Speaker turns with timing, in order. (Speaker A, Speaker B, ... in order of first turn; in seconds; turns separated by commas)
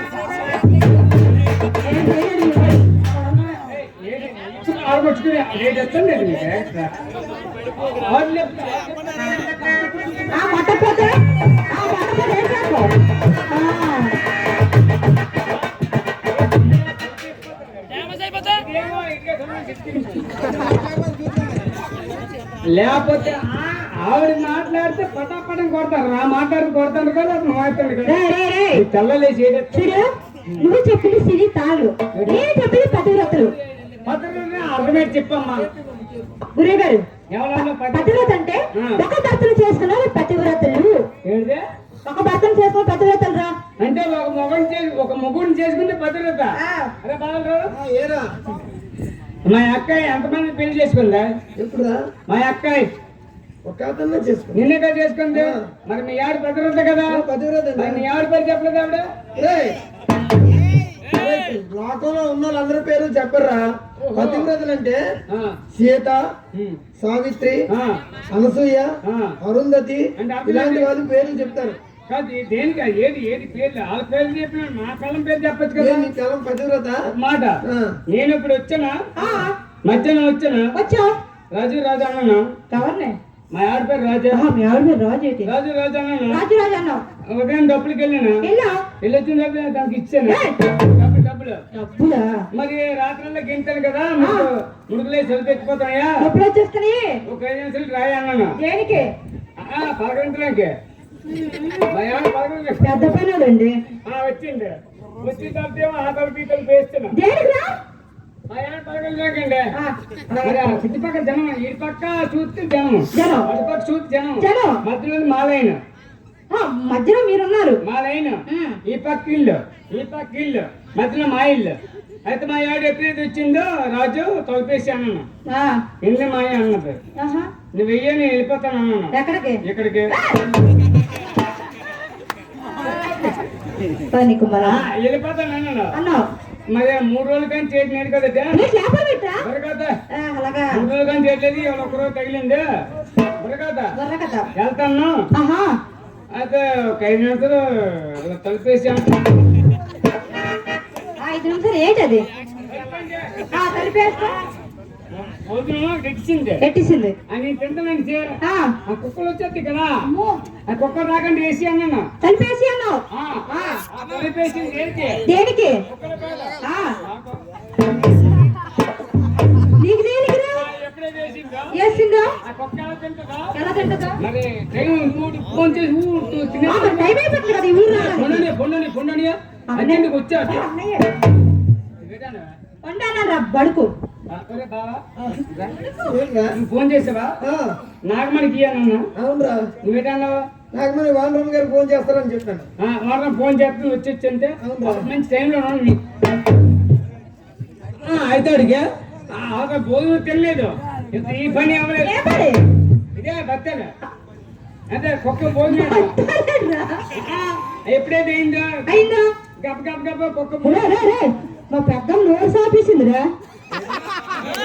Speaker A: 1.8-3.2, Speaker B: 3.5-7.0, Speaker B: 7.8-11.0, Speaker A: 10.3-12.9, Speaker A: 13.5-14.2, Speaker B: 16.4-17.9, Speaker B: 18.5-20.4, Speaker B: 22.7-28.2, Speaker A: 28.1-28.8, Speaker B: 28.7-30.7, Speaker A: 29.7-33.6, Speaker B: 32.1-32.5, Speaker B: 34.0-35.7, Speaker A: 36.5-37.0, Speaker B: 37.3-39.0, Speaker A: 37.9-41.0, Speaker B: 41.2-41.6, Speaker A: 42.0-43.5, Speaker B: 43.8-47.7, Speaker A: 46.6-46.9, Speaker C: 47.7-48.5, Speaker B: 49.5-51.3, Speaker C: 51.6-52.0, Speaker B: 52.3-52.9, Speaker C: 53.6-54.6, Speaker B: 54.5-57.2, Speaker C: 55.3-55.6, Speaker C: 57.1-58.1, Speaker B: 57.8-59.1, Speaker C: 59.4-59.8, Speaker C: 61.1-65.0, Speaker B: 64.0-64.5, Speaker B: 65.3-65.6, Speaker C: 65.7-66.3, Speaker B: 66.5-66.8, Speaker C: 67.0-67.6, Speaker B: 67.7-68.0, Speaker C: 68.3-71.8, Speaker B: 69.1-69.3, Speaker B: 70.2-70.9, Speaker B: 72.1-76.1, Speaker C: 75.8-77.0, Speaker B: 77.1-77.6, Speaker C: 77.7-77.9, Speaker B: 78.1-79.0, Speaker A: 79.2-79.5, Speaker B: 79.9-80.7, Speaker A: 80.8-81.2, Speaker B: 81.5-82.5, Speaker A: 82.7-83.2, Speaker B: 83.5-84.4, Speaker A: 84.3-85.5, Speaker B: 85.5-86.4, Speaker A: 86.3-87.0, Speaker B: 87.3-88.4, Speaker A: 88.4-88.8, Speaker B: 89.0-91.6, Speaker A: 90.3-90.8, Speaker A: 91.7-92.4, Speaker B: 92.5-96.2, Speaker A: 94.2-94.5, Speaker A: 96.2-97.2, Speaker B: 97.3-98.6, Speaker A: 98.6-99.1, Speaker B: 99.6-100.7, Speaker A: 101.3-102.0, Speaker B: 101.9-103.2, Speaker A: 102.8-103.8, Speaker B: 104.1-107.2, Speaker A: 107.1-107.8, Speaker B: 108.5-109.7, Speaker A: 109.8-110.8, Speaker B: 110.4-115.8, Speaker A: 113.1-113.5, Speaker A: 114.4-114.8, Speaker A: 116.5-117.8, Speaker B: 117.8-125.3, Speaker A: 118.5-118.8, Speaker A: 125.5-125.8, Speaker B: 126.0-127.0, Speaker A: 127.2-127.5, Speaker B: 127.7-130.1, Speaker A: 129.1-130.4, Speaker A: 132.9-133.4, Speaker A: 134.1-134.9, Speaker B: 134.6-136.0, Speaker A: 135.9-136.2, Speaker B: 136.7-138.7, Speaker A: 138.5-139.4, Speaker B: 139.4-139.9, Speaker A: 140.1-140.9, Speaker B: 140.7-142.6, Speaker B: 143.4-143.9, Speaker A: 144.0-144.5, Speaker B: 144.6-145.2, Speaker A: 145.3-145.8, Speaker B: 146.3-149.2, Speaker A: 151.2-152.3, Speaker B: 152.7-153.4, Speaker A: 153.5-154.4, Speaker B: 155.2-156.7, Speaker A: 156.6-157.2, Speaker B: 157.3-158.2, Speaker A: 158.4-158.8, Speaker B: 158.9-159.9, Speaker A: 160.1-160.4, Speaker B: 160.7-162.1, Speaker A: 162.2-163.8, Speaker B: 163.1-165.2, Speaker A: 165.3-165.8, Speaker B: 165.9-167.4, Speaker A: 166.6-167.0, Speaker A: 169.8-170.7, Speaker B: 170.6-171.7, Speaker A: 171.7-172.3, Speaker B: 172.4-173.5, Speaker A: 173.6-174.2, Speaker B: 174.2-177.2, Speaker A: 176.7-178.5, Speaker B: 177.9-180.7, Speaker A: 179.7-181.2, Speaker B: 182.0-182.5, Speaker A: 182.8-183.9, Speaker B: 184.3-185.8, Speaker C: 186.0-186.5, Speaker B: 186.5-187.3, Speaker C: 187.4-187.8, Speaker B: 188.1-189.0, Speaker C: 189.2-189.6, Speaker B: 189.8-190.5, Speaker C: 190.7-192.7, Speaker B: 192.8-196.0, Speaker C: 194.6-195.1, Speaker B: 198.0-202.2, Speaker A: 202.0-202.6, Speaker B: 203.1-203.9, Speaker B: 204.9-206.1, Speaker A: 205.7-207.1, Speaker B: 207.1-208.7, Speaker A: 208.9-209.2, Speaker B: 209.6-210.9, Speaker A: 210.6-213.3